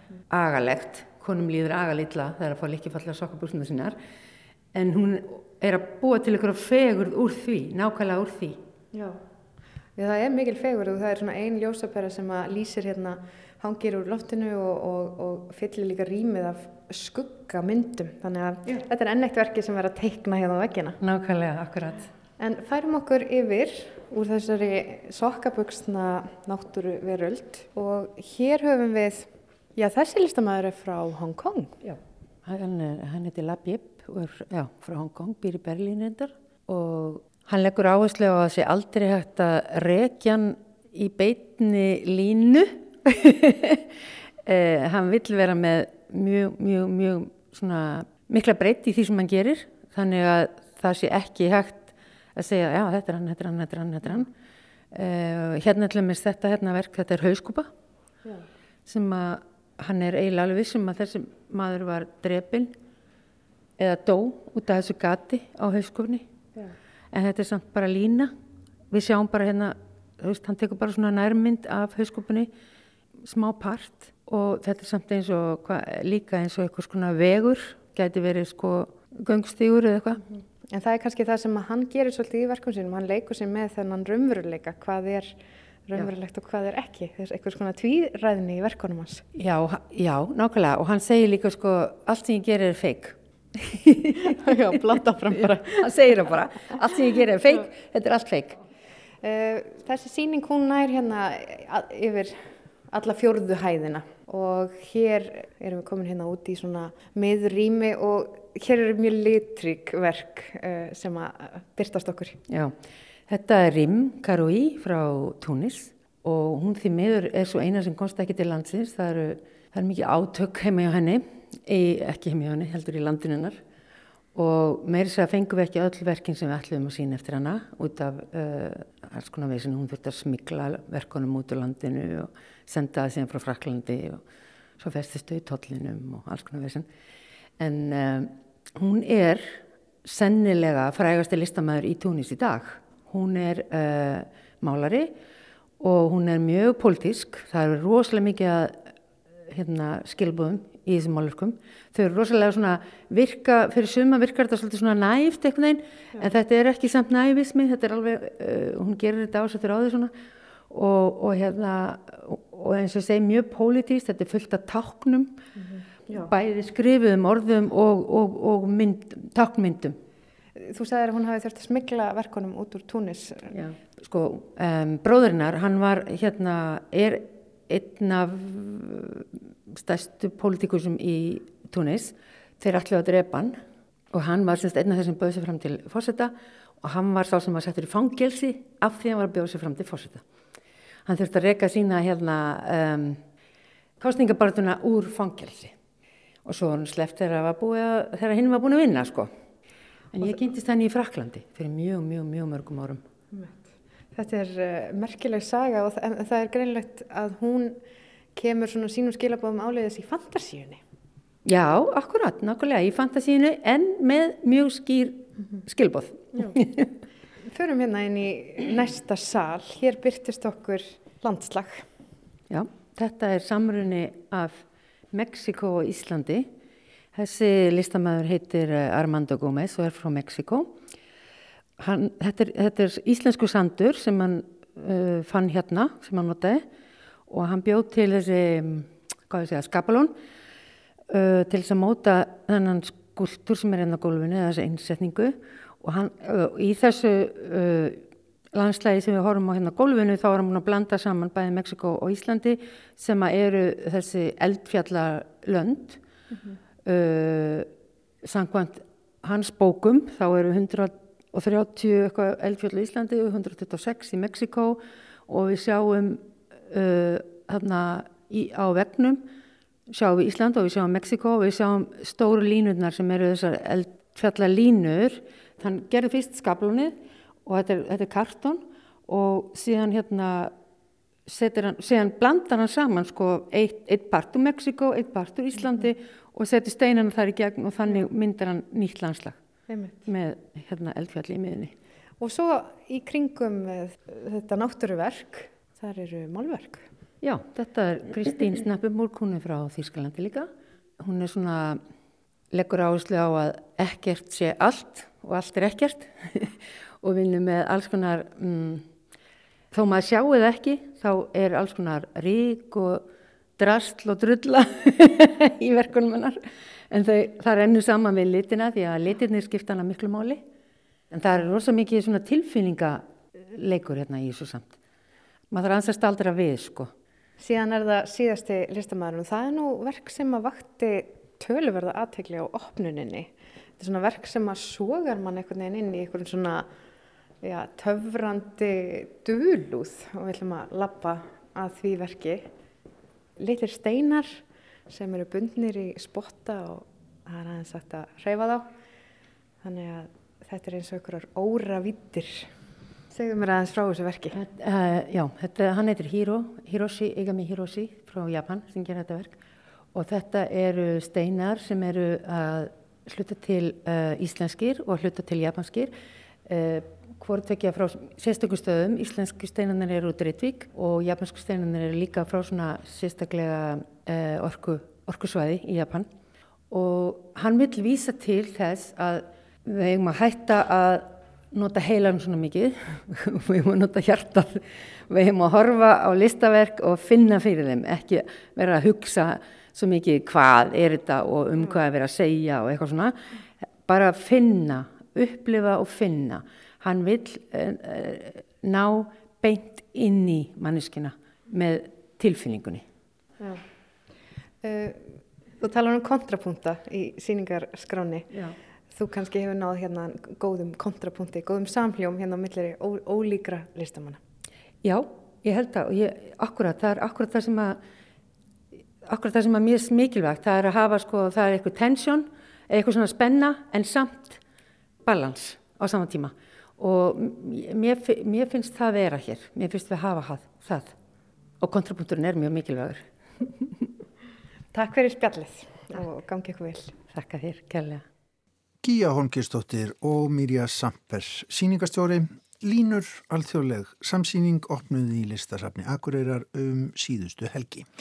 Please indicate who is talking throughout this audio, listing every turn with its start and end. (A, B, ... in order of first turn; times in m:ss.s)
0:00.3-0:04.0 A
0:04.7-0:08.6 A
0:08.9-0:09.2 B
0:10.0-0:21.0 B
0:21.0-0:22.1 A
0:22.4-0:31.8 B
0:31.8-0:43.9 A
0:44.4-0:54.3 A
0:54.9-0:57.7 A
0:58.9-1:02.7 A
1:03.8-1:06.2 A
1:07.1-1:08.3 A
1:08.9-1:12.5 A
1:13.2-1:20.2 A
1:20.7-1:25.4 B
1:25.9-1:29.2 B
1:29.3-1:34.6 A
1:34.3-1:35.9 B
1:35.3-1:38.6 A
1:39.2-1:52.4 B
1:52.5-1:52.7 A
1:53.3-2:03.6 A
2:04.3-2:14.2 A
2:14.8-2:16.8 A
2:17.6-2:25.1 A
2:25.8-2:28.9 A
2:29.5-2:40.1 A
2:40.7-2:45.4 A
2:45.6-2:46.3 B
2:46.1-2:50.0 A
2:50.6-2:53.5 B
2:53.5-3:10.2 A
3:11.0-3:13.2 A
3:14.0-3:15.7 A
3:16.4-3:19.3 A
3:20.1-3:23.0 A
3:23.3-3:27.8 B
3:28.4-3:30.8 B
3:31.4-3:36.9 A
3:37.4-3:41.8 B
3:42.5-3:46.5 A
3:47.1-3:50.7 A
3:51.8-3:56.6 A
3:57.3-4:00.1 A
4:01.1-4:16.0 A
4:16.3-4:16.6 B
4:16.8-4:17.7 A
4:18.2-4:29.2 A
4:29.9-4:40.5 A
4:41.3-4:49.4 A
4:49.7-4:50.0 B
4:50.0-4:51.7 A
4:52.2-4:56.8 B
4:57.2-5:01.8 A
5:02.5-5:08.9 A
5:09.7-5:13.0 A
5:13.6-5:16.4 A
5:16.9-5:20.4 A
5:21.1-5:24.8 A
5:25.5-5:26.9 A
5:27.4-5:36.7 B
5:37.4-5:42.4 B
5:43.4-5:48.6 B
5:49.6-5:52.5 B
5:53.1-5:54.4 B
5:54.3-5:59.4 A
5:59.9-6:05.9 A
6:06.4-6:16.1 A
6:16.7-6:33.2 A
6:33.9-6:42.8 A
6:43.4-6:43.6 B
6:44.6-6:48.3 B
6:48.3-6:48.6 A
6:48.9-6:54.2 B
6:54.8-6:57.8 A
6:59.0-7:04.4 A
7:05.0-7:10.9 A
7:11.6-7:13.0 A
7:14.7-7:17.0 B
7:17.1-7:18.0 A
7:18.8-7:27.8 C